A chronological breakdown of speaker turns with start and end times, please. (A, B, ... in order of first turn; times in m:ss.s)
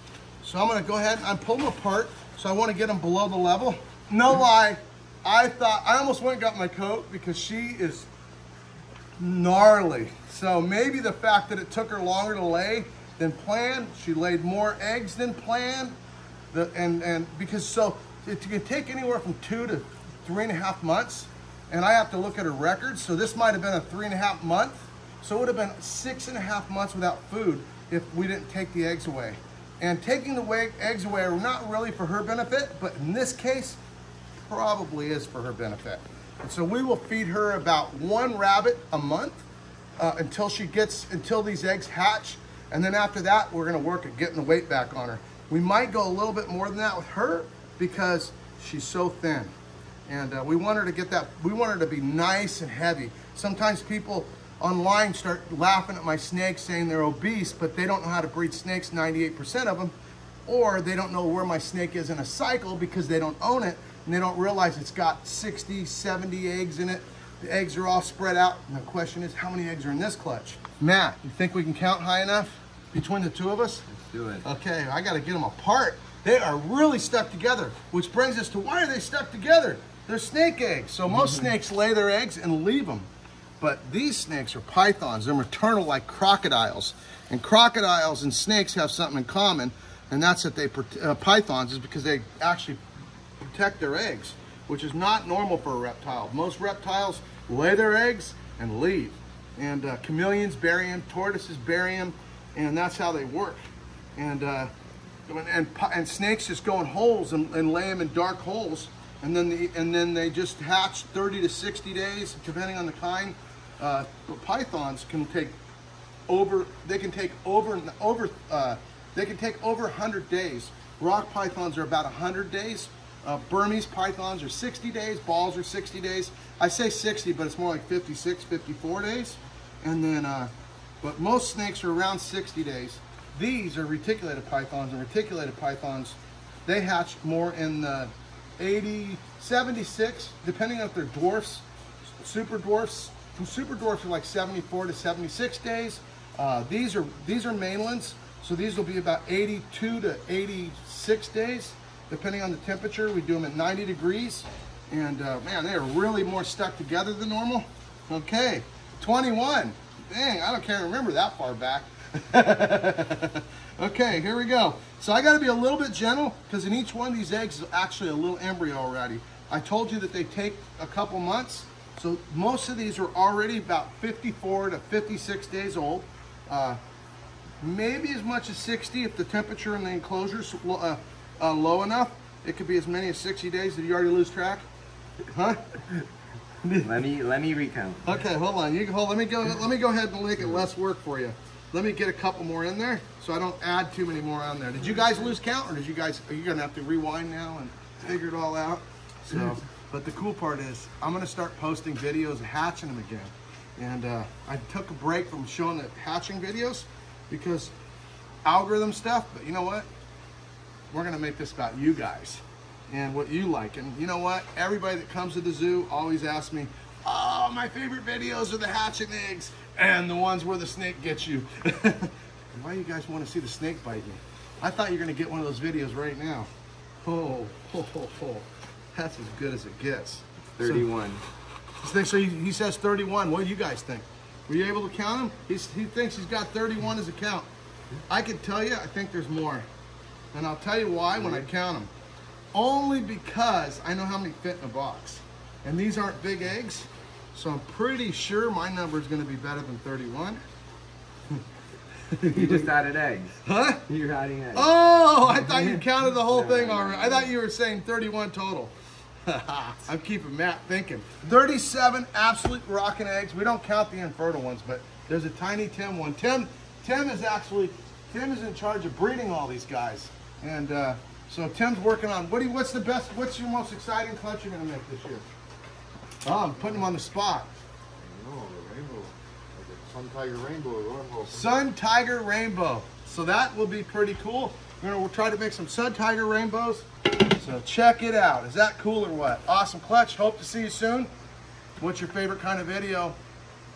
0:00.4-0:08.1 A
0:09.2-0:16.0 A
0:16.5-0:33.8 A
0:34.4-0:39.4 A
0:40.0-0:49.5 A
0:50.1-0:59.9 A
1:00.4-1:13.8 A
1:13.9-1:14.4 B
1:14.4-1:23.1 A
1:23.6-1:32.8 A
1:33.4-1:43.6 A
1:44.2-1:44.7 A
1:45.3-1:55.6 A
1:56.3-2:10.5 A
2:11.0-2:21.6 A
2:22.2-2:56.8 A
2:57.6-3:04.6 A
3:05.3-3:06.0 A
3:06.6-3:06.9 A
3:06.8-3:08.1 B
3:08.0-3:27.7 A
3:28.4-3:29.8 A
3:30.9-3:46.5 A
3:47.0-3:50.9 A
3:50.6-3:51.2 B
3:51.8-3:57.5 A
3:58.1-3:59.6 A
4:00.3-4:01.9 A
4:02.5-4:10.4 A
4:12.1-4:12.7 A
4:12.2-4:14.7 B
4:13.4-4:13.8 A
4:14.5-4:18.7 A
4:15.2-4:17.3 B
4:19.2-4:35.2 A
4:36.2-4:37.5 A
4:38.0-4:41.4 C
4:41.3-4:51.1 A
4:51.8-4:53.2 A